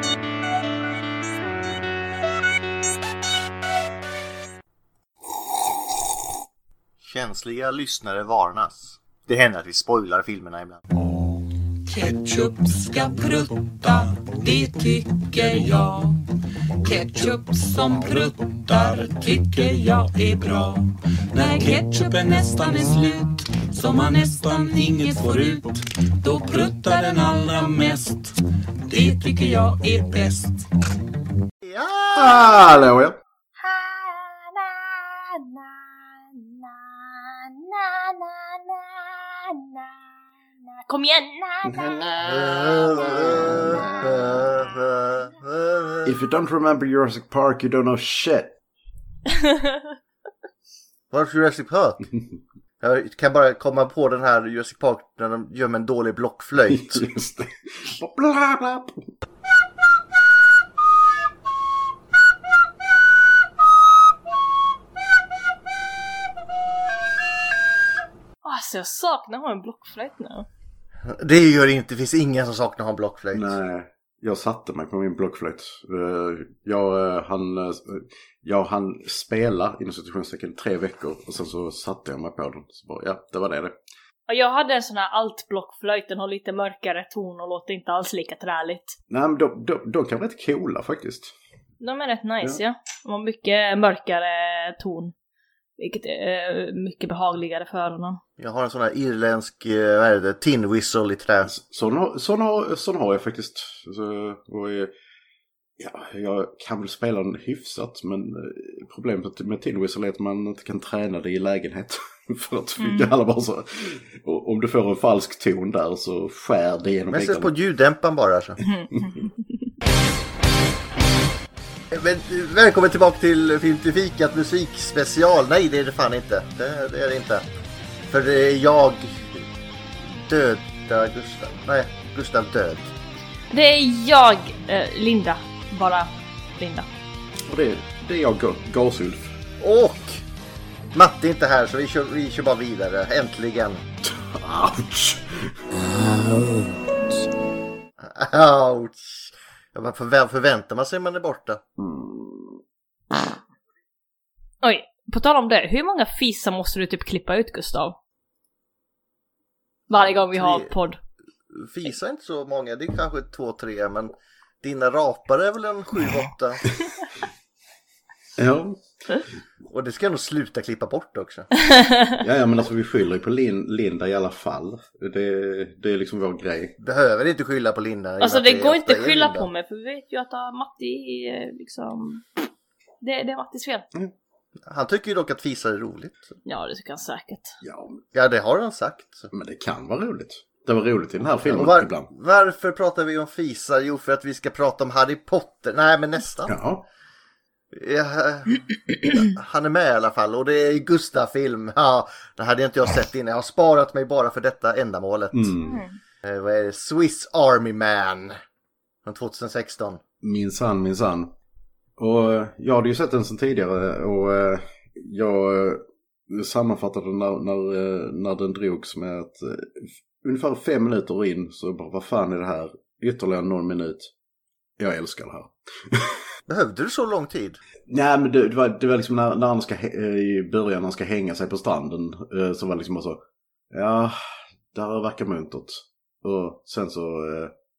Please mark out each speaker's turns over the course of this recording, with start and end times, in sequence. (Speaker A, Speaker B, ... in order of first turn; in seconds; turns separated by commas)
Speaker A: 7.0-10.8, Speaker B: 11.9-16.2, Speaker B: 16.8-28.4, Speaker B: 28.9-30.7, Speaker A: 31.6-32.6, Speaker C: 32.1-33.2, Speaker D: 33.6-35.9, Speaker D: 36.4-39.9, Speaker D: 40.9-42.0, Speaker C: 41.7-44.3, Speaker A: 42.2-46.2, Speaker C: 46.0-48.5, Speaker D: 49.3-49.8, Speaker A: 51.1-52.0, Speaker A: 52.8-57.0, Speaker C: 56.7-59.1, Speaker D: 68.4-70.5, Speaker A: 71.0-73.5, Speaker C: 73.3-83.8, Speaker D: 84.3-89.0, Speaker C: 89.1-91.3, Speaker D: 91.8-95.1, Speaker D: 95.8-98.2, Speaker A: 98.4-101.5, Speaker C: 101.5-104.9, Speaker C: 105.8-117.5, Speaker D: 112.8-113.1, Speaker A: 117.1-118.6, Speaker D: 118.7-119.3, Speaker A: 121.9-127.5, Speaker A: 128.1-129.3, Speaker A: 130.1-132.9, Speaker D: 133.5-136.9, Speaker C: 137.5-139.4, Speaker A: 139.6-140.2, Speaker A: 140.9-143.8, Speaker C: 144.1-145.6, Speaker A: 148.0-151.6, Speaker C: 151.8-152.6, Speaker D: 154.6-158.0, Speaker D: 159.9-161.0, Speaker A: 159.9-160.7, Speaker A: 161.5-166.7, Speaker C: 168.4-168.8, Speaker A: 169.7-171.5, Speaker D: 171.7-172.2, Speaker C: 172.2-176.8, Speaker A: 176.8-179.5, Speaker D: 178.2-182.3, Speaker D: 183.0-183.9, Speaker A: 184.7-186.3, Speaker D: 186.5-187.5, Speaker C: 187.6-188.0, Speaker A: 188.1-189.3, Speaker C: 189.3-192.1, Speaker A: 191.4-196.6, Speaker C: 196.5-196.8, Speaker A: 197.7-205.6, Speaker C: 205.3-205.8, Speaker D: 205.6-205.9, Speaker A: 206.2-208.4, Speaker A: 209.1-210.0, Speaker C: 210.2-211.3, Speaker C: 212.0-224.1, Speaker C: 224.8-226.2, Speaker A: 226.5-227.6, Speaker C: 227.9-233.2, Speaker C: 233.7-234.2, Speaker C: 234.7-237.5